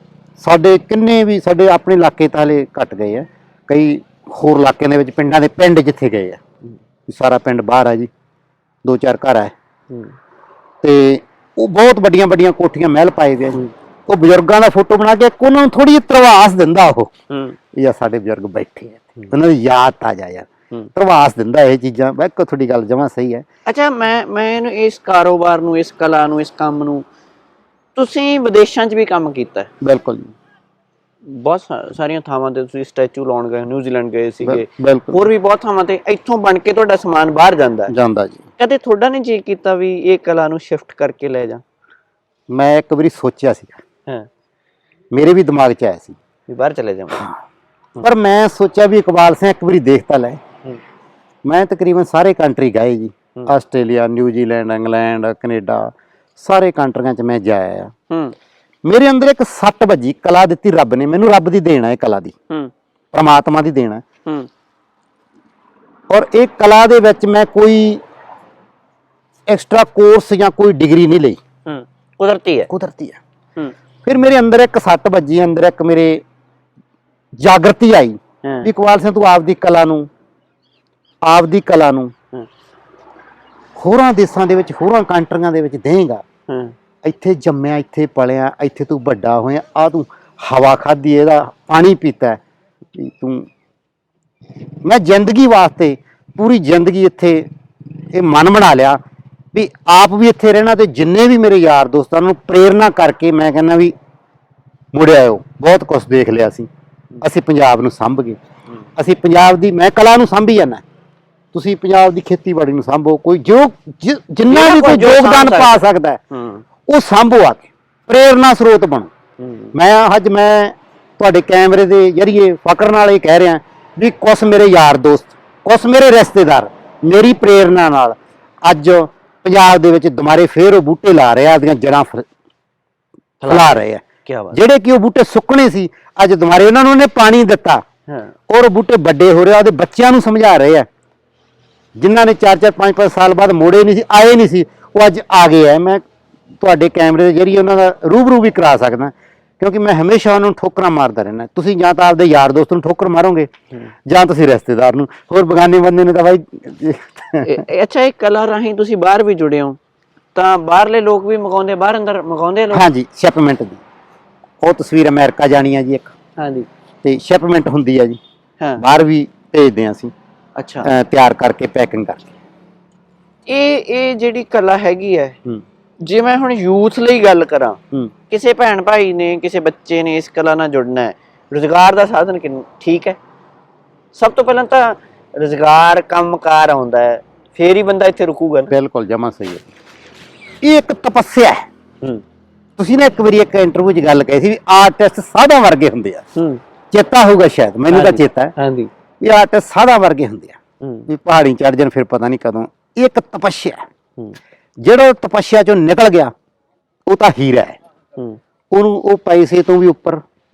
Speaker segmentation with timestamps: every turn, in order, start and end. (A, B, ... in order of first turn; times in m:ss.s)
0:00.4-0:06.4 A
0:07.1-0:08.1 A
0:08.8-0:09.5 A
0:10.8-0:17.1 A
0:17.3-0:17.6 B
0:17.7-0:23.4 A
0:23.6-0:27.0 B
0:28.0-0:29.7 B
0:29.8-0:30.3 A
0:31.2-0:37.9 B
0:34.4-0:35.3 A
0:37.9-0:38.4 A
0:38.6-0:41.6 B
0:42.5-0:43.8 A
0:45.1-0:46.2 A
0:46.5-0:47.3 B
0:48.0-0:50.4 A
0:51.4-0:57.9 A
0:58.1-0:58.3 B
0:58.8-1:02.3 A
1:03.1-1:04.0 A
1:06.1-1:08.0 A
1:09.5-1:11.4 A
1:11.6-1:12.7 B
1:12.7-1:13.2 A
1:14.0-1:16.2 A
1:17.4-1:20.1 A
1:18.4-1:18.7 B
1:21.2-1:22.1 A
1:23.8-1:26.2 A
1:26.5-1:26.7 B
1:27.0-1:32.4 A
1:32.9-1:33.4 A
1:34.8-1:37.4 A
1:38.1-1:39.0 A
1:39.5-1:43.9 A
1:44.9-1:46.7 A
1:47.2-1:48.4 A
1:49.0-1:50.8 A
1:51.5-1:56.2 A
1:54.5-1:56.6 B
1:56.9-1:59.1 A
1:59.4-1:59.7 B
1:59.7-2:12.2 A
2:13.4-2:14.6 B
2:13.5-2:17.8 A
2:18.1-2:18.3 B
2:18.5-2:20.9 A
2:22.0-2:26.0 A
2:26.6-2:33.5 A
2:34.1-2:37.6 A
2:37.4-2:39.8 B
2:40.3-2:42.8 B
2:42.7-2:43.8 A
2:44.6-2:46.1 A
2:46.4-2:46.7 B
2:47.0-2:48.2 A
2:48.8-2:50.1 A
2:50.6-2:50.9 B
2:50.8-2:52.3 A
2:53.5-2:55.4 B
2:56.0-2:57.8 B
2:58.3-3:03.2 B
3:04.1-3:08.7 B
3:08.7-3:09.6 A
3:10.6-3:11.6 A
3:12.8-3:16.2 A
3:16.4-3:16.6 B
3:16.9-3:18.5 A
3:17.9-3:18.9 B
3:19.2-3:20.6 A
3:20.8-3:21.1 B
3:21.1-3:23.8 A
3:24.8-3:26.3 A
3:27.0-3:27.8 A
3:28.7-3:30.2 A